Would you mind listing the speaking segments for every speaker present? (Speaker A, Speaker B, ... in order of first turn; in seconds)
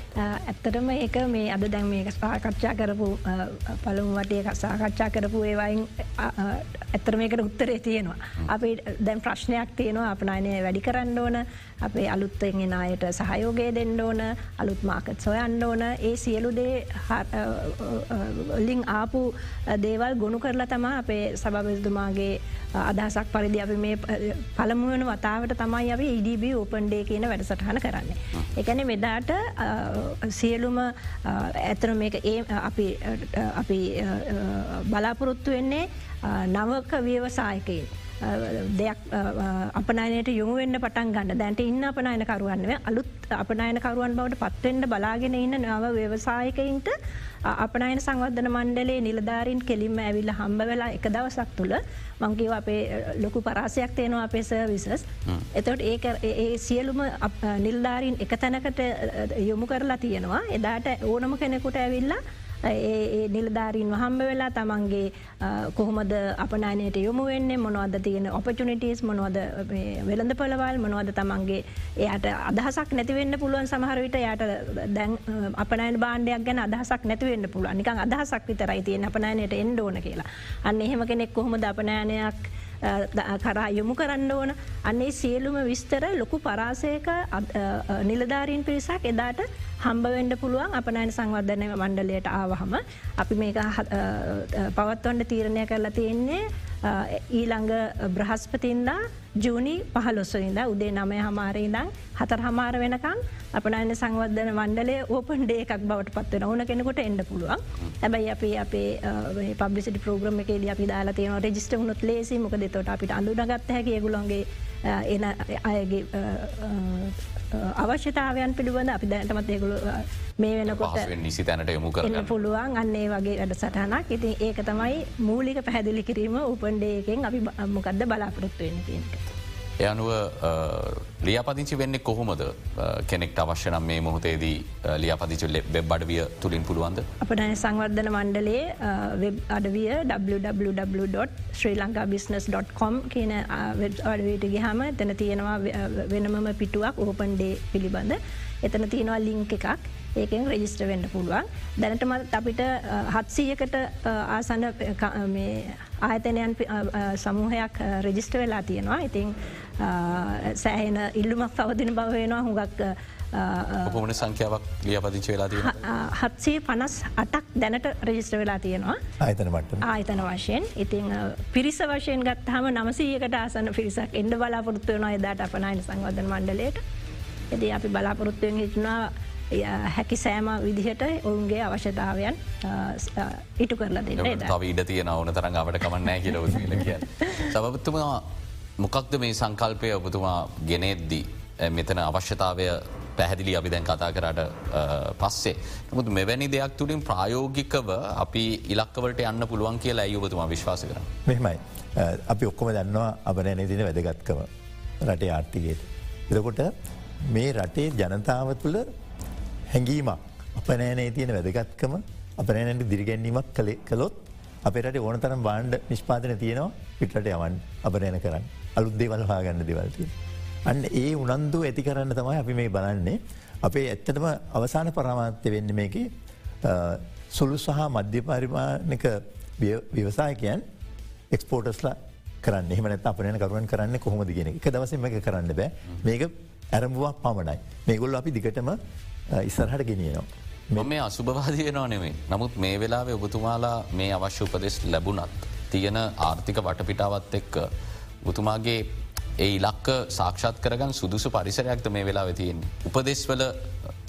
Speaker A: 0.2-121.1, 122.0-129.2, 137.2-164.1, 165.6-169.0, 169.8-176.8, 177.5-184.6
Speaker B: 120.7-122.3, 129.8-137.1, 163.8-165.8, 184.2-188.3, 188.8-201.1, 240.8-247.7, 248.2-248.9, 249.4-253.7
Speaker C: 169.2-169.8, 201.3-204.5, 205.0-206.7, 207.3-208.8, 209.7-220.1, 220.7-226.1, 226.6-230.6, 231.3-238.8, 239.3-240.9